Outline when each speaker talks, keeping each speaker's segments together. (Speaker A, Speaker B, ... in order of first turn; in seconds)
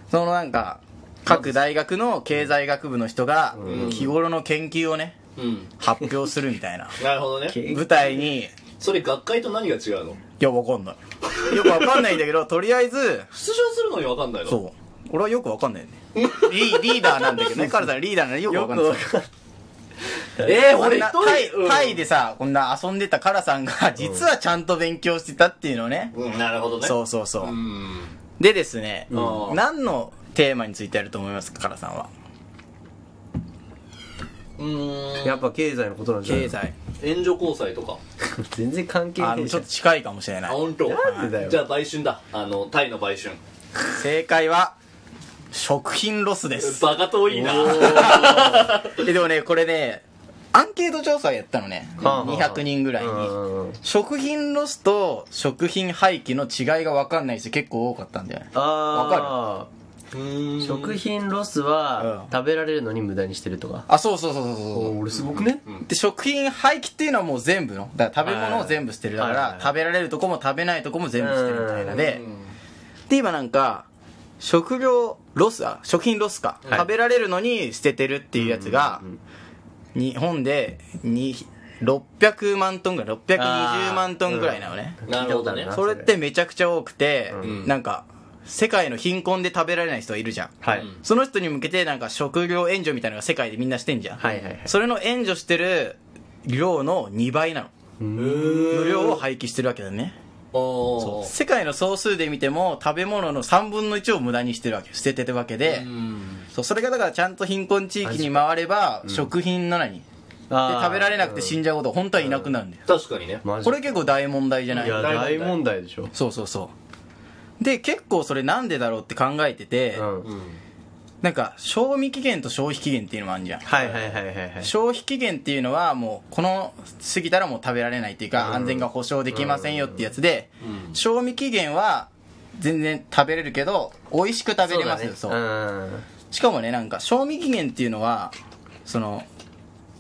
Speaker A: 0.1-5.2, 5.8-7.0, 7.6-8.5, 10.4-13.3, 14.5-19.1, 20.6-26.1, 26.8-27.6, 28.4-32.1, 36.2-36.8, 39.2-41.4, 43.9-44.8, 45.5-46.9, 47.6-59.4, 62.0-62.3, 63.9-65.0, 65.9-72.2, 73.1-73.9, 74.4-79.0, 80.0-85.0, 85.7-97.7, 98.7-100.2, 101.0-105.9, 106.5-110.0, 110.6-112.8, 113.6-115.2, 116.1-116.7, 117.6-120.0, 121.2-123.8, 124.6-135.4, 136.3-138.3, 138.9-139.3
Speaker B: 3.6-4.0, 7.5-7.9, 17.6-17.9, 18.5-19.3, 24.0-24.3, 29.1-29.4, 35.2-36.5, 38.4-39.7, 40.9-41.6, 47.3-48.6, 52.0-53.8, 58.5-59.7, 60.6-63.9, 64.7-65.6, 68.2-69.7, 71.2-72.0, 78.4-79.2, 83.3-86.1, 90.6-90.9, 94.2-94.7, 98.0-98.9, 108.0-108.5, 110.5-111.6, 112.2-112.5, 113.4-114.0, 114.8-116.1, 119.9-120.3, 123.6-124.7, 128.4-130.1, 134.6-136.1
Speaker C: 3.6-4.2, 5.4-5.7, 7.0-7.6, 8.8-10.2, 11.4-12.1, 13.3-14.6, 16.2-17.4, 20.4-22.1, 26.1-28.1, 29.1-29.6, 34.6-35.5, 37.0-38.0, 40.5-43.4, 46.6-49.1, 60.1-61.0, 65.3-65.9, 71.9-72.5, 85.1-85.8, 87.4-87.7, 90.7-91.0, 98.2-99.2, 100.5-101.3, 105.6-106.5, 112.9-113.4, 114.7-115.6, 120.2-120.6, 130.6-131.0